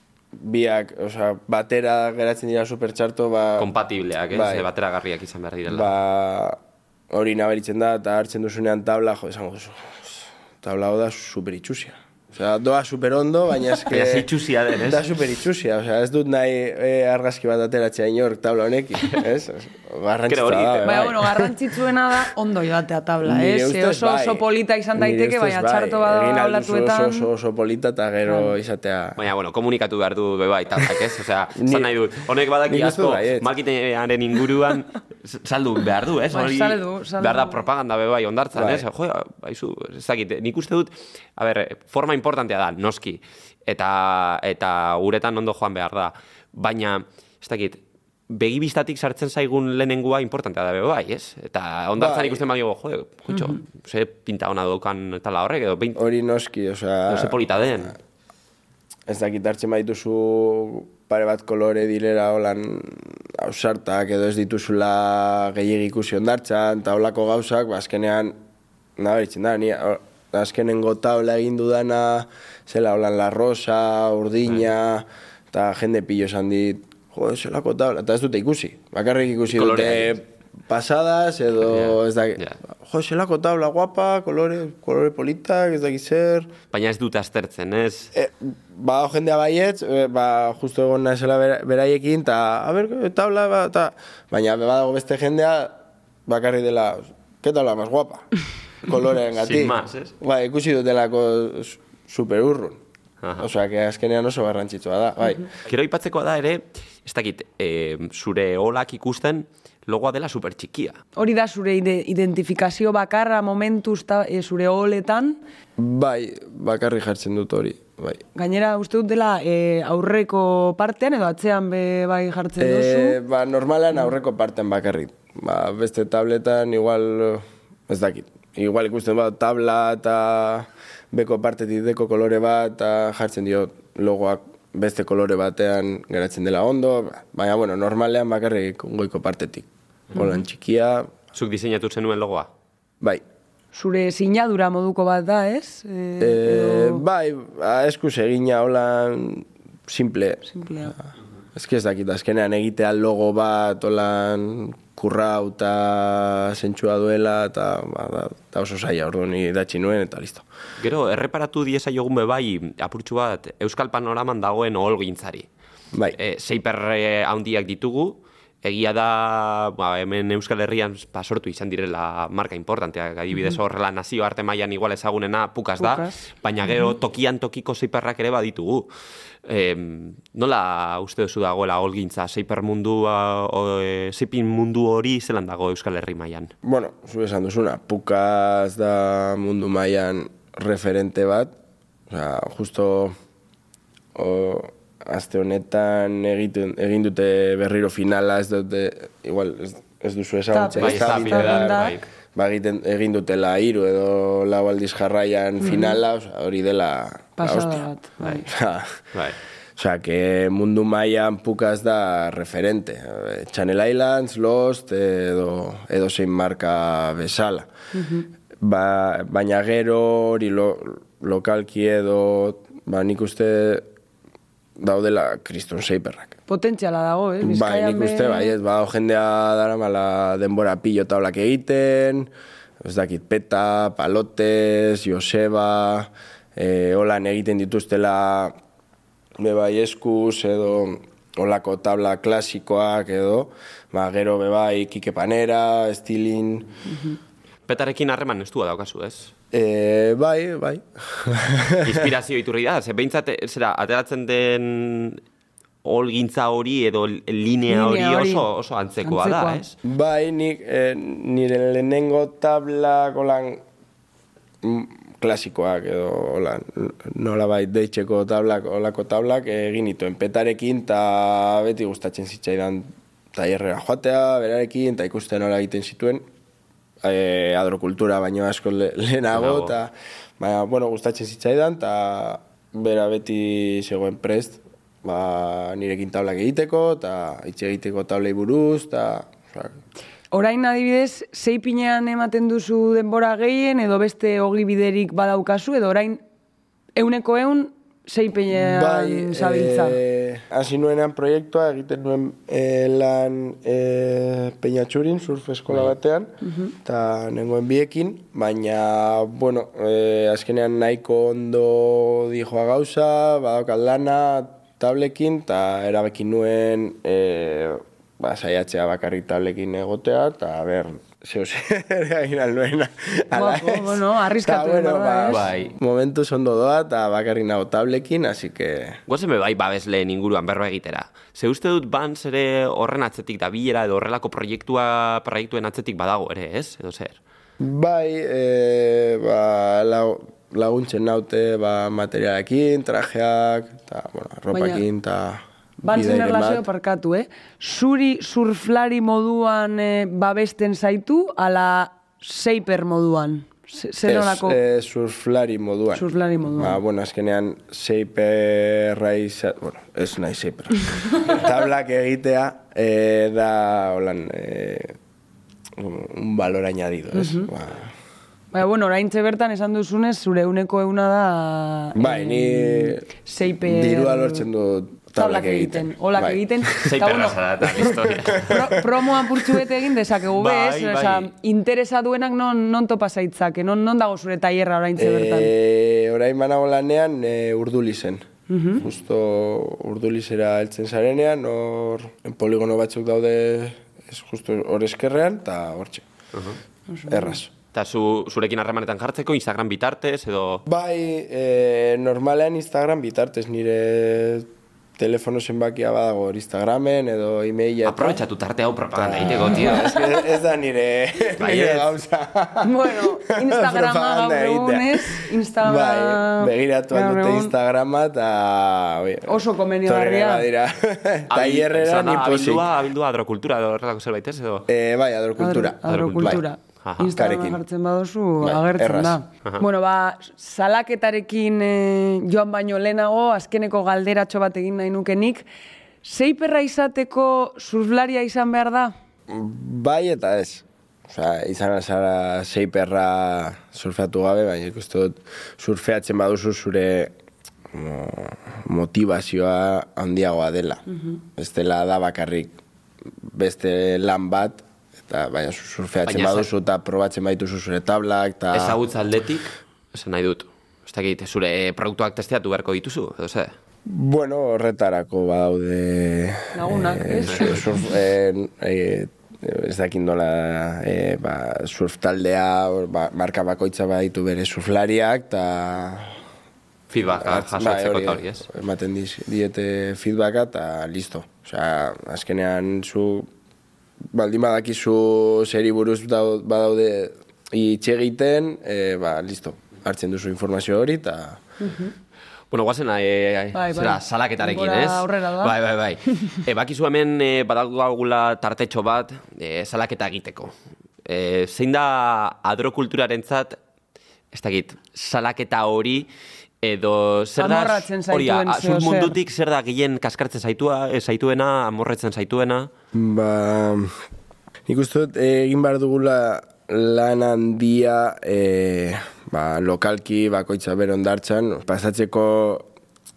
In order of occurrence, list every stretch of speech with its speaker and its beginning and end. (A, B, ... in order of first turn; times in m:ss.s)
0:00.3-0:03.7 A
0:03.6-0:05.9 B
0:04.3-0:04.7 A
0:05.7-0:06.6 A
0:07.1-0:21.5 A
0:13.9-0:15.1 B
0:20.3-0:21.4 B
0:20.8-0:27.3 C
0:23.2-0:24.4 A
0:25.0-0:29.2 A
0:28.3-0:28.5 C
0:29.2-0:47.8 B
0:31.6-0:31.9 A
0:32.7-0:33.5 A
0:36.3-0:37.6 C
0:38.5-0:38.8 A
0:48.3-0:56.0 B
0:52.0-0:52.4 A
0:53.3-0:53.6 C
0:56.0-0:57.4 A
0:57.1-0:58.0 B
0:59.1-1:08.4 A
1:09.0-1:26.5 A
1:19.5-1:20.2 B
1:21.7-1:22.6 B
1:26.7-1:28.1 B
1:28.1-1:38.3 A
1:38.8-1:42.8 A
1:39.4-1:40.1 B
1:43.2-1:43.5 B
1:43.4-1:45.5 A
1:45.7-1:51.0 B
1:51.2-1:55.4 C
1:55.8-1:58.2 A
1:58.4-2:03.2 C
2:02.6-2:21.1 A
2:21.3-2:22.5 B
2:23.7-2:27.0 C
2:26.2-2:30.4 A
2:30.5-2:31.0 C
2:31.5-2:40.4 A
2:40.8-2:45.5 B
2:46.2-2:58.9 B
2:55.8-2:56.9 C
2:59.5-3:06.5 B
3:06.6-3:11.5 A
3:12.1-3:13.2 A
3:14.2-3:27.9 A
3:20.5-3:22.0 C
3:20.8-3:22.0 B
3:25.6-3:26.0 C
3:27.4-3:28.5 C
3:28.5-3:29.1 A
3:29.8-3:37.7 A
3:37.9-3:38.3 C
3:38.6-3:43.9 A
3:44.8-3:46.4 A
3:46.5-3:48.6 C
3:47.4-3:58.6 A
3:59.4-4:06.7 A
4:07.7-4:09.3 B
4:09.5-4:12.1 A
4:11.8-4:15.2 B
4:15.8-4:19.8 B
4:17.7-4:18.5 C
4:19.0-4:19.6 C
4:19.8-4:23.6 A
4:24.6-4:36.2 A
4:37.0-4:49.8 A
4:39.3-4:39.7 B
4:50.3-4:56.2 C
4:57.0-5:00.0 C
4:58.5-5:29.0 A
5:06.4-5:06.7 C
5:23.3-5:25.4 C
5:25.3-5:25.7 B
5:29.1-5:37.2 B
5:37.6-5:46.6 A
5:44.5-5:44.8 C
5:45.8-5:54.6 C
5:54.1-6:05.0 A
5:56.0-5:56.8 C
6:05.8-6:07.9 A
6:07.1-6:07.5 C
6:08.5-6:14.5 C
6:12.0-6:13.0 A
6:13.6-6:16.9 A
6:15.2-6:17.4 C
6:16.8-6:18.8 B
6:17.6-6:18.8 A
6:18.4-6:25.5 C
6:20.3-6:21.3 B
6:25.0-6:36.1 A
6:28.5-6:28.8 C
6:36.3-6:36.6 B
6:36.9-6:37.4 C
6:37.1-6:37.5 A
6:37.7-6:40.6 B
6:40.7-6:48.2 A
6:47.8-6:49.9 B
6:49.0-7:02.7 A
6:49.4-6:50.3 C
6:51.4-6:51.9 B
6:52.6-6:57.5 C
6:59.3-7:00.5 C
7:01.3-7:04.7 B
7:04.7-7:06.4 A
7:05.4-7:15.4 C
7:05.9-7:07.1 B
7:07.2-7:07.6 A
7:08.4-7:09.2 A
7:16.0-7:18.9 C
7:19.3-7:27.1 A
7:27.7-7:30.8 A
7:31.4-7:32.6 A
7:33.3-7:38.8 A
7:36.1-7:36.5 B
7:38.5-7:43.5 B
7:43.9-7:56.2 A
7:46.5-7:47.6 C
7:56.9-7:58.5 B
7:57.2-8:03.3 A
8:04.1-8:11.4 A
8:11.6-8:11.9 C
8:12.5-8:20.5 B
8:13.5-8:15.6 C
8:21.0-8:23.6 B
8:24.3-8:26.1 B
8:26.6-8:32.7 B
8:27.4-8:29.2 C
8:32.9-8:33.9 A
8:34.7-8:42.7 A